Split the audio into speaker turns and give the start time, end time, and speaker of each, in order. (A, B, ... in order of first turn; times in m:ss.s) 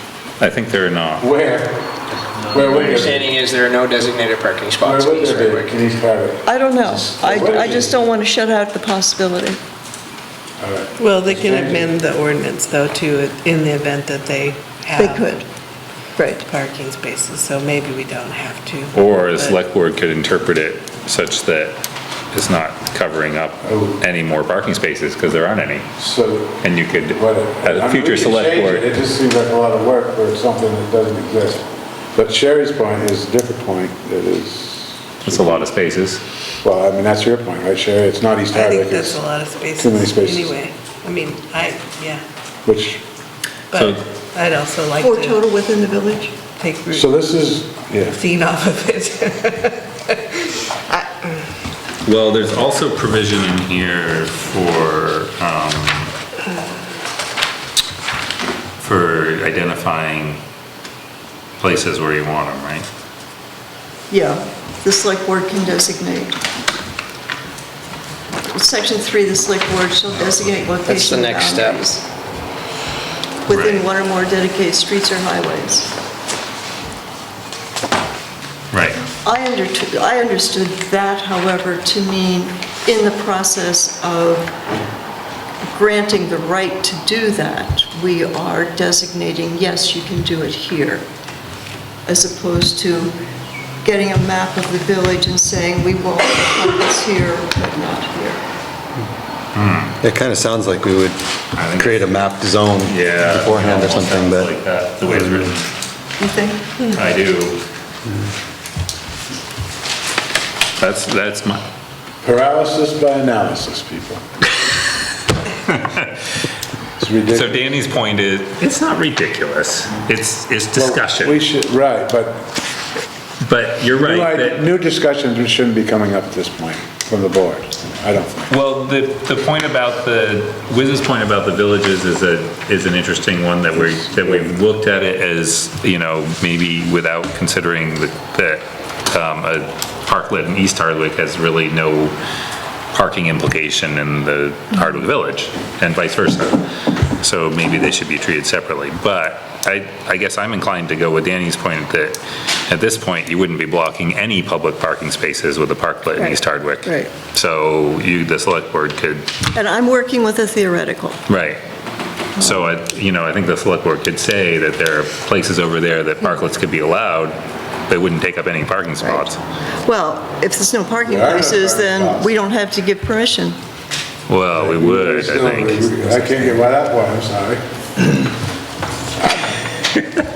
0:00.4-0:01.2 A
0:01.2-0:01.9 B
0:02.5-0:03.3 B
0:02.5-0:05.7 C
0:04.8-0:06.5 B
0:06.4-0:09.6 D
0:06.9-0:07.4 C
0:07.2-0:07.9 B
0:10.6-0:11.9 B
0:11.0-0:15.3 E
0:15.0-0:15.4 D
0:16.2-0:16.4 D
0:16.4-0:19.6 E
0:18.9-0:21.8 A
0:22.3-0:25.8 A
0:23.6-0:24.0 B
0:26.0-0:35.7 B
0:26.6-0:28.8 A
0:35.2-0:36.2 A
0:36.6-0:39.2 B
0:38.5-0:42.2 E
0:39.7-0:40.5 B
0:42.6-0:43.0 B
0:43.7-0:45.4 E
0:43.7-0:44.0 A
0:45.0-0:46.3 D
0:46.6-0:47.1 E
0:46.9-0:48.2 B
0:48.1-0:51.1 E
0:52.0-0:56.1 A
0:58.8-1:00.4 A
1:01.6-1:02.9 A
1:04.1-1:06.4 D
1:08.5-1:12.0 D
1:10.8-1:11.8 C
1:13.5-1:15.9 D
1:13.5-1:13.9 A
1:18.7-1:19.0 A
1:19.2-1:24.5 D
1:25.6-1:31.0 D
1:32.0-1:33.2 D
1:33.8-1:38.4 D
1:39.5-1:40.0 A
1:40.0-1:41.2 F
1:41.5-1:42.2 A
1:41.7-1:44.5 F
1:42.8-1:45.7 A
1:46.2-1:46.6 D
1:46.9-1:47.6 A
1:50.8-1:51.6 A
1:52.2-1:54.2 B
1:55.7-1:56.0 A
1:57.0-1:57.7 B
1:57.3-2:01.4 A
2:00.7-2:02.5 B
2:03.4-2:04.6 A
2:04.0-2:08.4 B
2:08.5-2:22.1 A
2:13.9-2:14.5 B
2:22.9-2:26.6 A
2:27.2-2:39.3 A
2:36.2-2:37.1 D
2:39.5-2:41.2 D
2:41.3-2:41.6 A
2:42.4-2:49.4 A
2:49.0-2:49.3 D
2:49.8-2:53.6 D
2:51.0-2:52.3 B
2:54.3-2:56.6 A
2:54.6-2:57.6 B